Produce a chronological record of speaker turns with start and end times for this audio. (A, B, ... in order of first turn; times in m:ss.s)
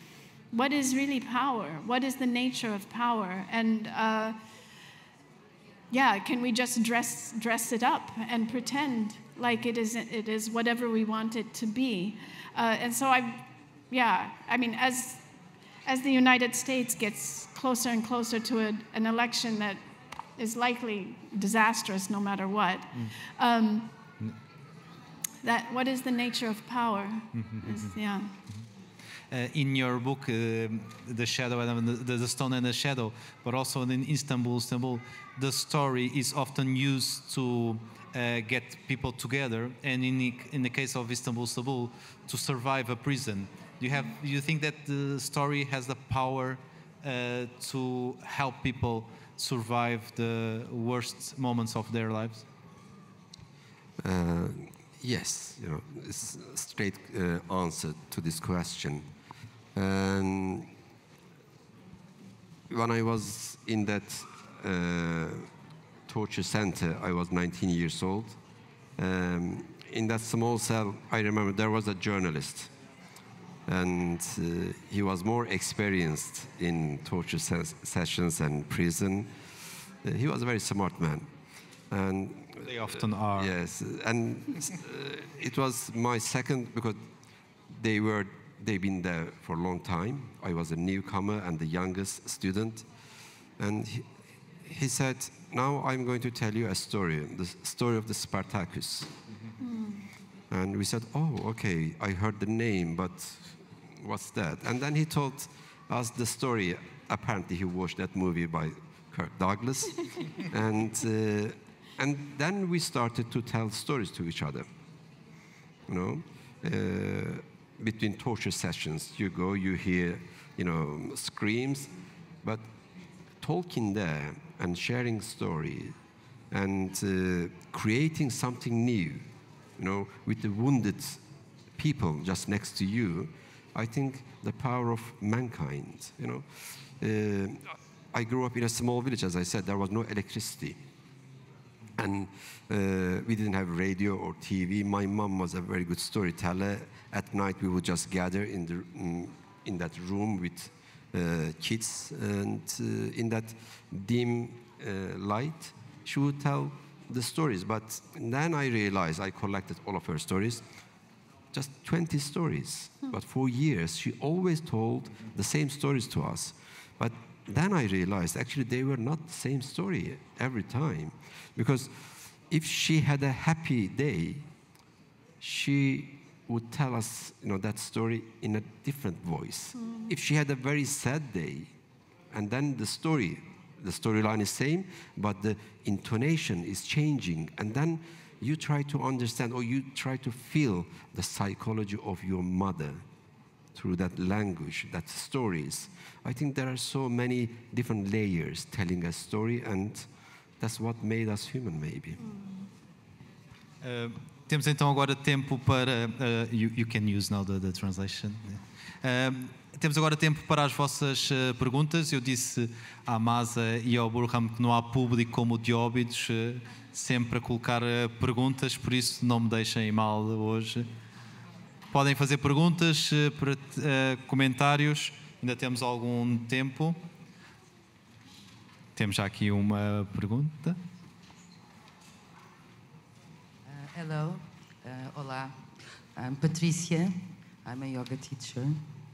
0:00.5-0:04.4 A
0:05.9-0:15.2 A
0:15.8-0:19.8 A
0:20.4-0:23.9 A
0:25.4-0:28.4 A
0:27.4-0:28.0 B
0:29.3-0:52.4 B
0:54.0-0:59.0 C
0:59.7-1:00.7 C
1:02.7-1:05.5 C
1:06.1-1:08.4 C
1:09.0-1:12.7 C
1:13.7-1:19.3 C
1:20.0-1:21.3 C
1:21.9-1:27.0 C
1:22.6-1:23.5 B
1:27.7-1:32.9 C
1:33.6-1:34.1 C
1:34.6-1:39.1 C
1:39.6-1:40.1 A
1:40.5-1:54.6 C
1:55.9-2:01.9 C
2:03.4-2:06.0 C
2:06.5-2:09.2 C
2:09.8-2:11.2 C
2:11.8-2:20.8 C
2:22.0-2:40.6 C
2:41.5-2:54.5 C
2:55.4-3:01.7 C
2:59.8-3:00.1 A
3:02.3-3:13.0 C
3:13.7-3:20.1 C
3:20.6-3:22.2 C
3:22.2-3:22.7 A
3:23.8-3:40.9 B
3:41.9-3:47.0 B
3:49.0-3:50.8 B
3:53.6-3:58.9 D